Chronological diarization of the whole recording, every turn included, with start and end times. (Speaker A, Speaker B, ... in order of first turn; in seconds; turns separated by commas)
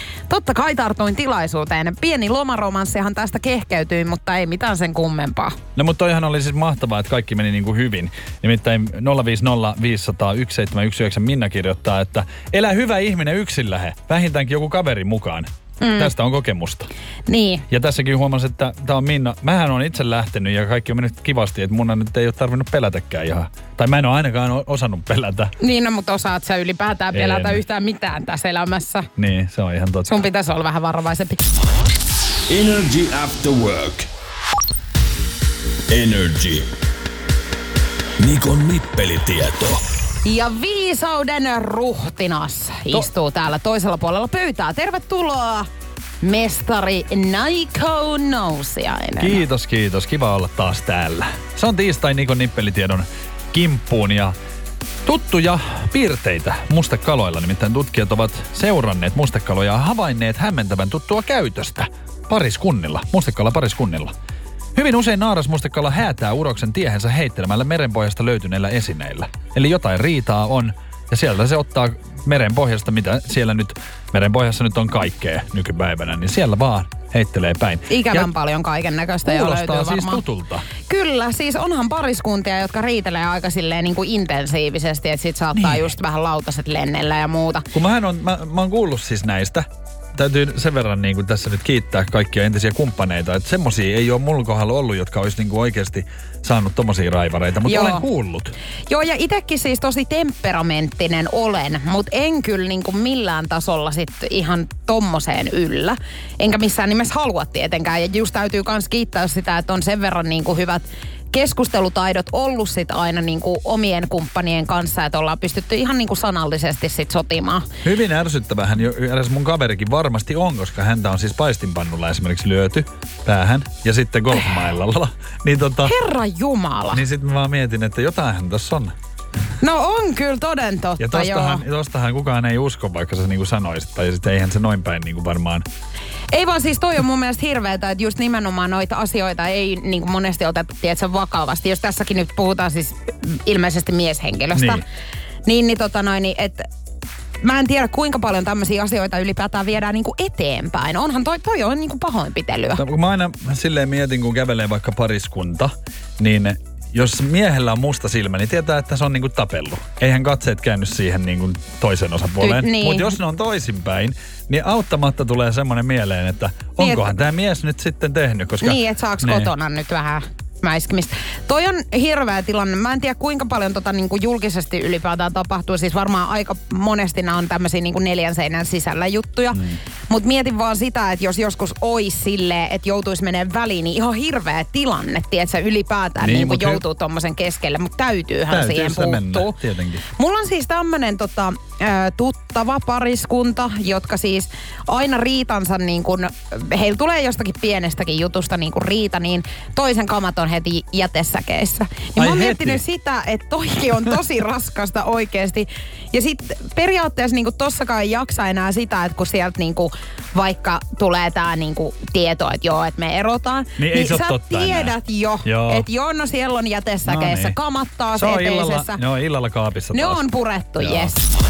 Speaker A: 0.3-5.6, Speaker B: 5.8-16.9, Speaker A: 15.8-16.1, Speaker A: 17.3-17.6, Speaker B: 17.7-25.5, Speaker A: 25.6-29.1, Speaker B: 27.1-27.6, Speaker B: 29.2-30.2, Speaker A: 30.1-31.4, Speaker C: 32.5-34.1, Speaker C: 35.9-36.7, Speaker C: 38.2-39.8, Speaker A: 40.2-45.7, Speaker A: 46.2-49.4, Speaker B: 49.2-54.3, Speaker B: 55.0-64.1, Speaker B: 64.7-78.3, Speaker A: 77.9-80.2, Speaker B: 79.2-80.7, Speaker A: 80.9-87.7, Speaker B: 85.6-85.9, Speaker B: 87.7-98.5, Speaker A: 97.7-98.0, Speaker A: 98.9-117.7, Speaker B: 117.8-125.9, Speaker A: 125.8-127.0, Speaker B: 126.9-128.9, Speaker A: 129.6-131.6, Speaker B: 131.0-135.6, Speaker A: 136.3-144.8, Speaker B: 144.5-144.8, Speaker A: 145.4-146.7, Speaker A: 147.4-152.8, Speaker B: 152.8-169.5, Speaker A: 162.4-163.2, Speaker A: 166.8-167.1, Speaker A: 168.6-189.5, Speaker B: 179.5-179.8, Speaker B: 186.2-186.8, Speaker B: 188.5-190.0, Speaker A: 190.1-219.0, Speaker B: 202.2-202.8, Speaker B: 213.8-215.8, Speaker B: 217.0-217.6, Speaker B: 218.1-220.2, Speaker A: 219.9-221.2, Speaker B: 220.8-221.1